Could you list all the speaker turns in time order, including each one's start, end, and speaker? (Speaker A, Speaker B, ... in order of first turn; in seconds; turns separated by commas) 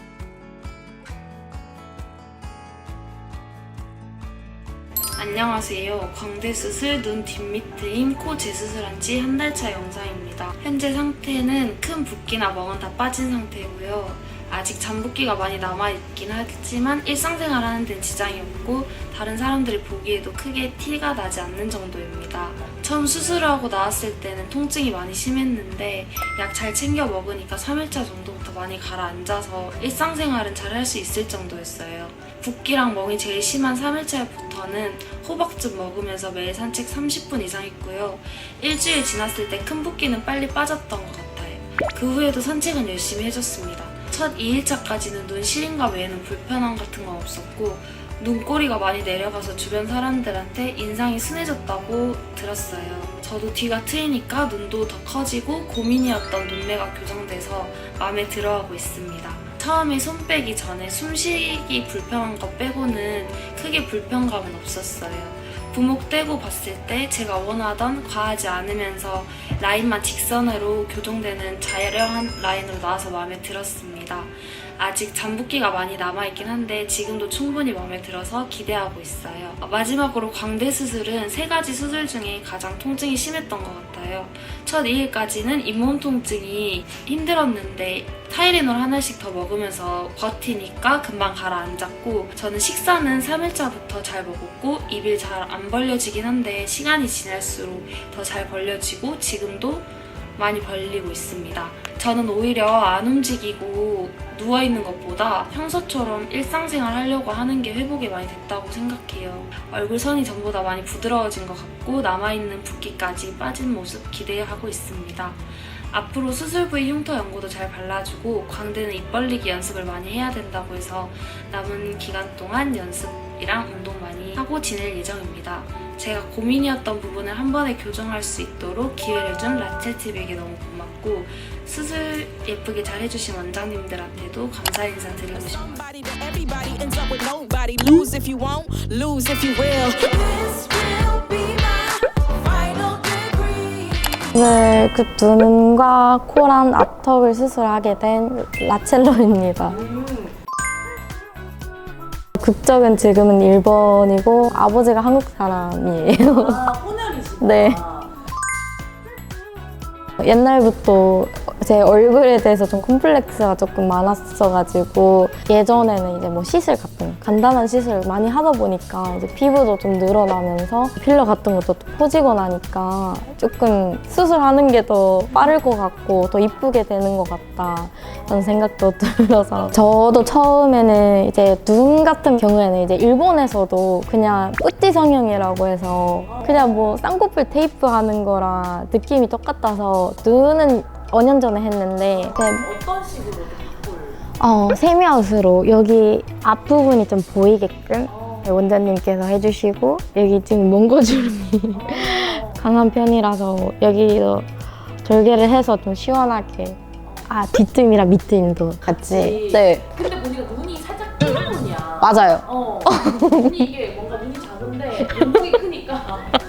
Speaker A: 5.2-135.8, Speaker B: 135.3-144.6, Speaker C: 144.3-149.8, Speaker D: 149.7-150.3, Speaker C: 152.4-156.7, Speaker D: 156.3-158.1, Speaker C: 157.4-157.8, Speaker C: 160.2-192.7, Speaker D: 178.0-178.5, Speaker D: 179.6-180.3, Speaker D: 186.2-186.9, Speaker D: 192.0-194.2, Speaker C: 194.4-210.0, Speaker D: 198.1-198.5, Speaker D: 201.7-202.7, Speaker D: 209.0-216.3, Speaker C: 212.0-213.7, Speaker C: 215.0-215.6